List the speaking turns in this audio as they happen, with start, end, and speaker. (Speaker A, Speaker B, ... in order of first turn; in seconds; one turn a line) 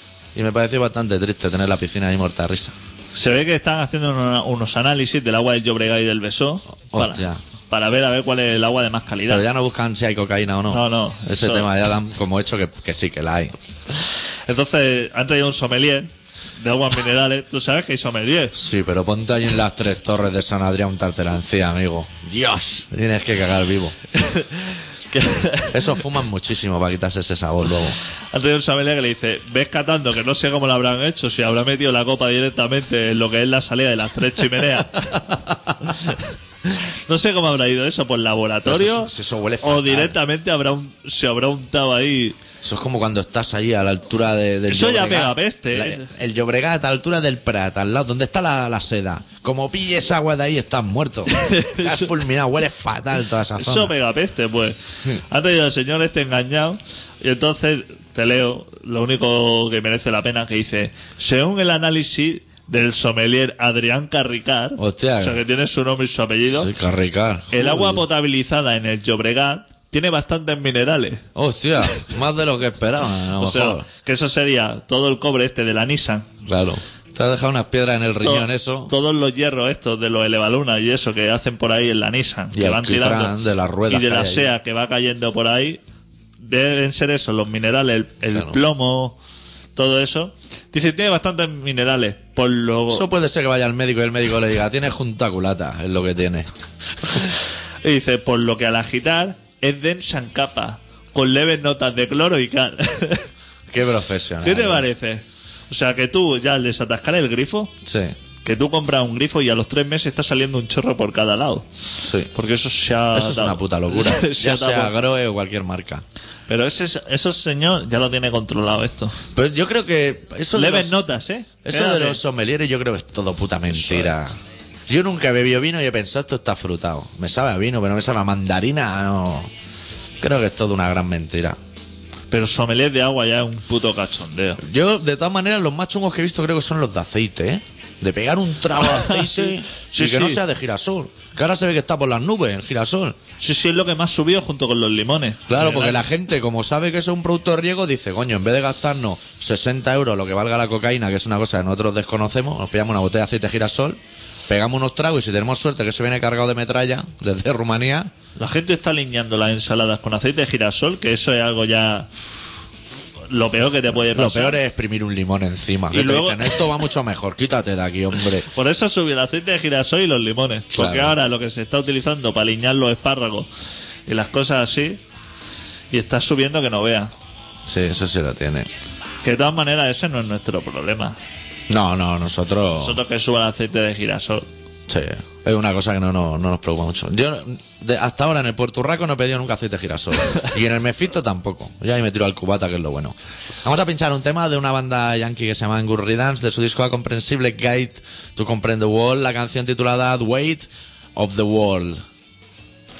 Speaker A: 0.3-2.7
Speaker B: 3.1-9.4
Speaker A: 6.9-7.4
Speaker A: 9.3-13.6
Speaker B: 10.7-11.7
Speaker B: 14.5-18.6
Speaker A: 18.5-23.9
Speaker B: 24.1-26.1
Speaker A: 25.7-28.0
Speaker B: 28.3-35.3
Speaker B: 35.8-42.4
Speaker A: 38.6-40.2
Speaker A: 42.6-53.9
Speaker B: 44.7-46.1
Speaker B: 51.3-52.1
Speaker B: 53.5-66.7
Speaker A: 64.8-65.4
Speaker A: 66.5-68.0
Speaker B: 67.5-71.2
Speaker A: 71.3-73.9
Speaker B: 73.4-76.3
Speaker A: 76.4-78.9
Speaker B: 78.2-83.3
Speaker A: 82.5-84.5
Speaker B: 83.9-85.8
Speaker B: 86.4-89.2
Speaker A: 88.3-88.6
Speaker B: 89.8-93.1
Speaker A: 92.9-96.5
Speaker B: 97.8-103.3
Speaker A: 103.7-104.9
Speaker B: 104.4-107.7
Speaker A: 107.8-108.2
Speaker B: 108.4-111.7
Speaker A: 112.0-112.3
Speaker B: 112.3-114.9
Speaker A: 113.1-116.0
Speaker B: 116.5-119.2
Speaker A: 119.3-121.0
Speaker B: 120.5-122.2
Speaker A: 121.6-124.3
Speaker B: 123.7-124.1
Speaker A: 124.9-129.5
Speaker A: 130.2-131.6
Speaker B: 132.3-134.6
Speaker A: 134.6-143.2
Speaker B: 138.8-140.4
Speaker B: 143.4-146.0
Speaker A: 145.5-158.1
Speaker B: 158.4-162.1
Speaker B: 163.3-164.6
Speaker A: 164.1-168.5
Speaker B: 165.9-166.6
Speaker B: 168.4-173.5
Speaker A: 170.7-171.2
Speaker B: 174.1-175.0
Speaker B: 175.9-177.1
Speaker A: 177.7-178.7
Speaker B: 179.2-181.2
Speaker A: 181.7-183.0
Speaker B: 182.8-184.5
Speaker A: 184.9-202.0